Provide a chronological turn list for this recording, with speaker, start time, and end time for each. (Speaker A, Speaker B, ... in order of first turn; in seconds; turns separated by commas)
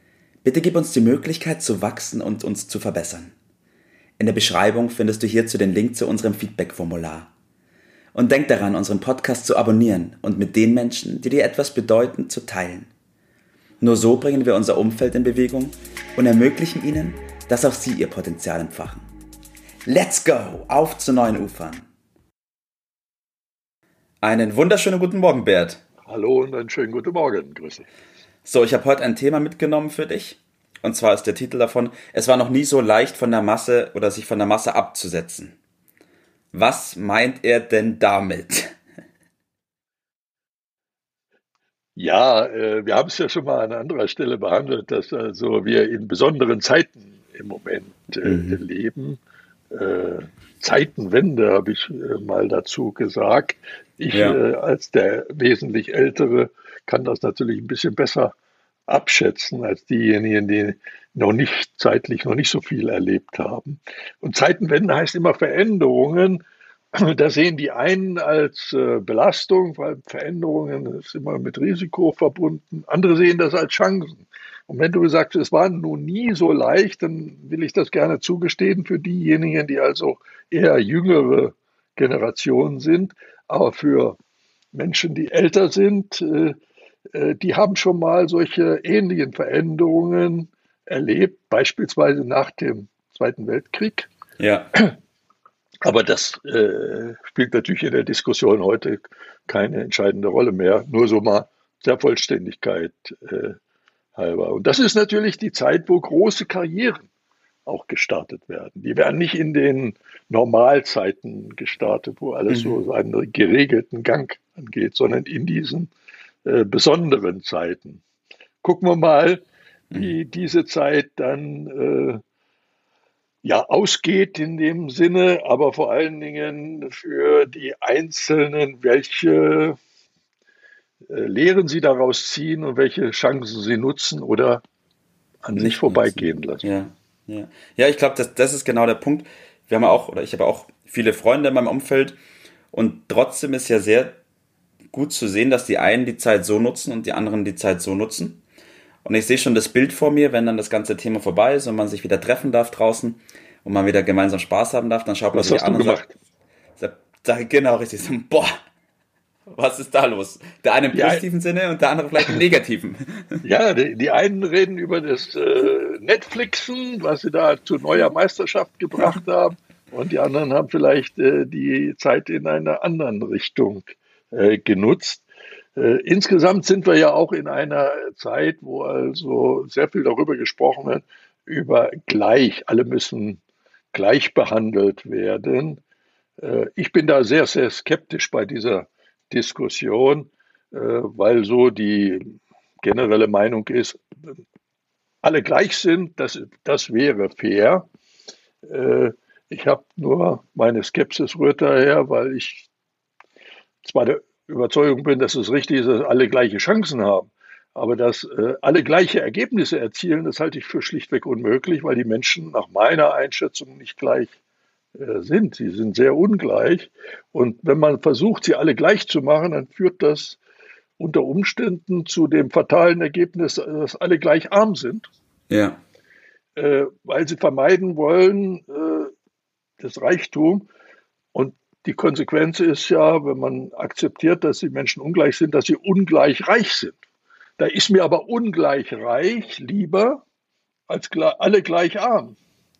Speaker A: 0.4-3.3, Speaker A: 4.2-7.3, Speaker A: 8.1-12.9, Speaker A: 13.8-19.1, Speaker A: 19.9-21.9, Speaker A: 24.2-25.8, Speaker B: 26.0-27.9, Speaker A: 28.4-35.5, Speaker A: 36.5-38.7, Speaker B: 42.0-49.2, Speaker A: 48.2-48.6, Speaker B: 49.7-58.3, Speaker A: 54.1-54.4, Speaker B: 58.9-66.4, Speaker B: 66.9-84.2, Speaker B: 84.7-86.5, Speaker B: 87.1-94.1, Speaker A: 94.4-94.7, Speaker B: 95.8-103.5, Speaker B: 104.2-107.1, Speaker B: 107.7-115.9, Speaker A: 112.5-112.8, Speaker B: 116.4-118.0, Speaker B: 118.6-122.2, Speaker B: 123.4-129.8, Speaker B: 131.1-134.6, Speaker B: 135.4-136.7, Speaker A: 135.6-142.2, Speaker A: 142.7-144.2, Speaker A: 144.9-148.4, Speaker A: 149.0-156.0, Speaker B: 155.3-156.1, Speaker A: 156.8-158.6, Speaker A: 159.4-163.4, Speaker B: 160.9-161.2, Speaker B: 163.4-175.2, Speaker B: 175.8-183.4, Speaker B: 183.9-185.8, Speaker B: 186.4-192.2, Speaker B: 192.8-194.0, Speaker B: 195.2-197.9, Speaker B: 198.6-202.7, Speaker B: 203.8-214.3, Speaker B: 214.9-220.4, Speaker B: 221.0-225.1, Speaker A: 225.5-225.8, Speaker B: 226.6-229.1, Speaker B: 229.8-230.7, Speaker B: 231.3-237.0, Speaker B: 237.6-240.2, Speaker B: 240.9-242.4